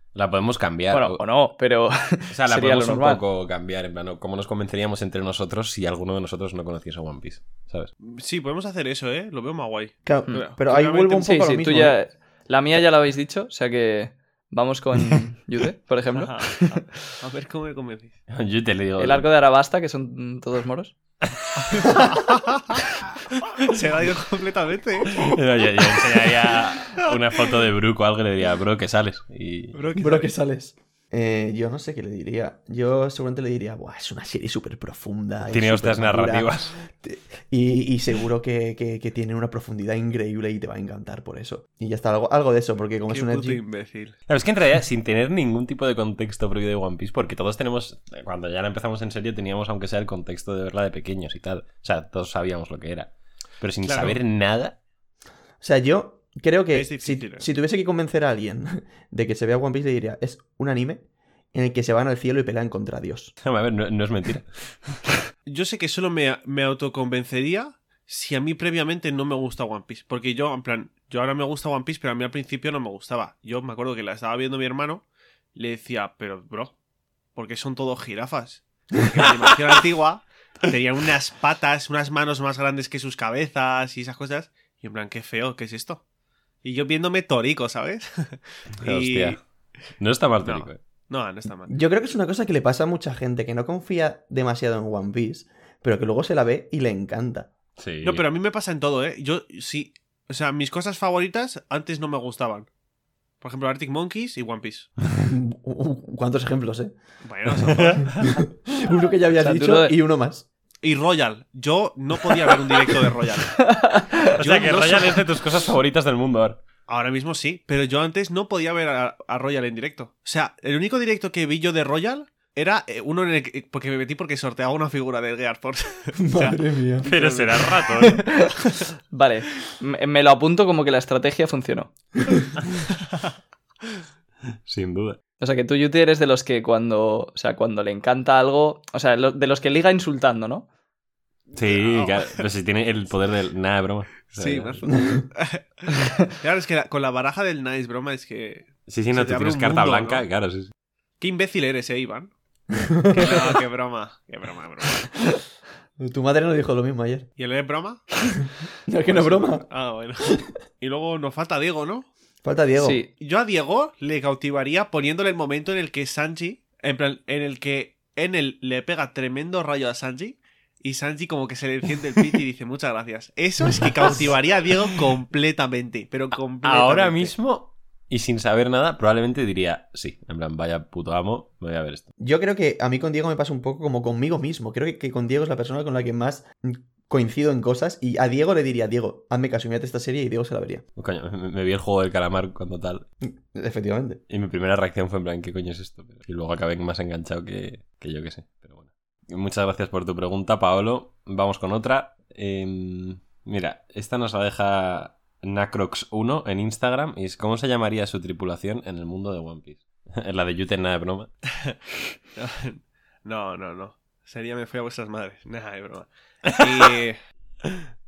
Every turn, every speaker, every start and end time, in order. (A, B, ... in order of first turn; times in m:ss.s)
0:00.1-0:01.2 A
0:00.9-0:03.2 B
0:02.3-0:07.9 A
0:08.1-0:11.2 C
0:10.0-0:12.0 D
0:11.1-0:16.8 B
0:16.1-0:18.2 C
0:18.3-0:19.3 A
0:19.0-0:20.9 B
0:21.7-0:22.6 C
0:21.8-0:22.2 D
0:23.6-0:25.4 C
0:25.1-0:29.8 A
0:25.9-0:27.1 C
0:29.7-0:30.3 C
0:30.0-0:43.6 D
0:35.5-0:36.8 A
0:43.1-0:44.1 C
0:44.3-0:54.8 A
0:53.8-0:54.2 C
0:55.6-1:03.3 D
0:56.7-0:57.4 C
1:03.4-1:05.0 A
1:05.4-1:16.7 C
1:17.3-1:26.0 C
1:26.6-1:29.4 C
1:28.8-1:29.4 A
1:30.0-1:30.8 A
1:30.4-1:31.7 C
1:31.7-1:37.5 D
1:37.8-1:38.2 A
1:38.0-1:42.7 C
1:43.4-1:44.9 C
1:45.2-1:47.0 D
1:47.2-1:48.1 C
1:47.5-1:48.3 A
1:48.2-1:50.4 D
1:49.4-1:50.0 B
1:50.8-1:53.6 C
1:53.6-1:54.3 B
1:54.2-1:56.6 A
1:54.4-1:55.4 C
1:56.9-2:08.1 C
2:06.2-2:07.1 D
2:07.0-2:08.2 A
2:08.1-2:08.5 B
2:09.1-2:11.9 B
2:14.7-2:15.2 A
2:15.4-2:20.7 B
2:21.5-2:22.4 C
2:21.5-2:24.9 A
2:24.4-2:30.2 C
2:28.9-2:30.7 A
2:31.2-2:32.3 C
2:32.7-2:33.6 D
2:33.1-2:35.1 C
2:36.0-2:37.3 D
2:37.4-2:38.1 C
2:38.9-2:39.6 D
2:39.1-2:42.1 C
2:40.2-2:40.5 D
2:42.4-2:43.0 D
2:42.8-2:43.1 B
2:43.2-2:57.3 C
2:56.6-3:02.1 A
3:02.2-3:10.8 D
3:11.0-3:13.1 A
3:13.2-3:14.2 D
3:14.3-3:31.3 A
3:32.4-3:37.2 C